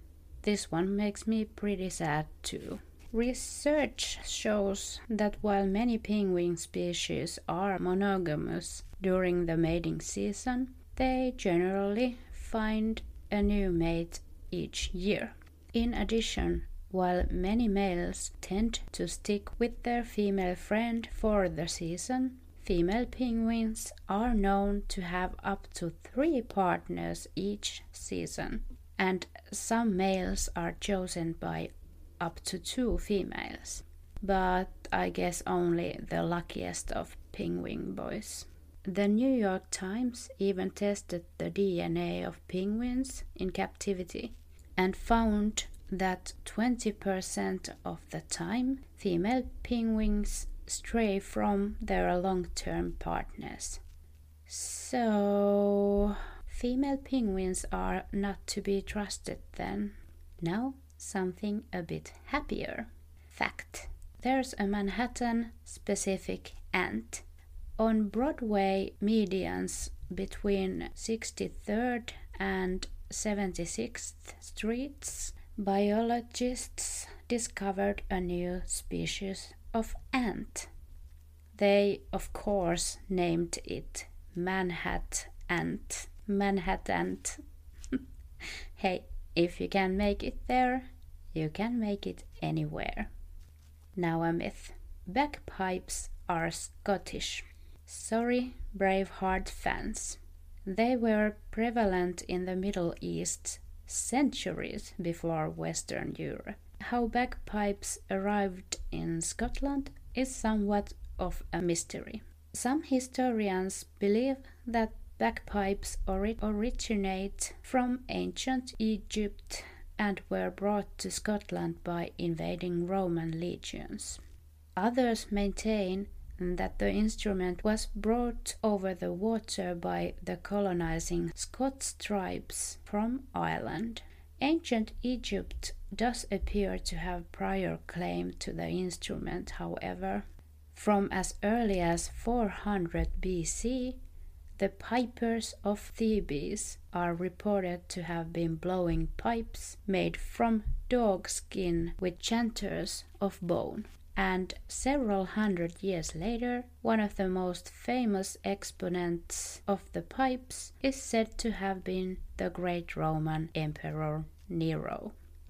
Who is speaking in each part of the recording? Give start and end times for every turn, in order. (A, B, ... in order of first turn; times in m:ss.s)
0:00.4-0:53.8 A
0:54.5-1:07.2 A
1:07.8-1:20.7 A
1:21.6-1:27.4 A
1:28.8-1:33.1 A
1:34.0-2:04.2 A
2:04.8-2:24.0 A
2:24.6-2:45.2 A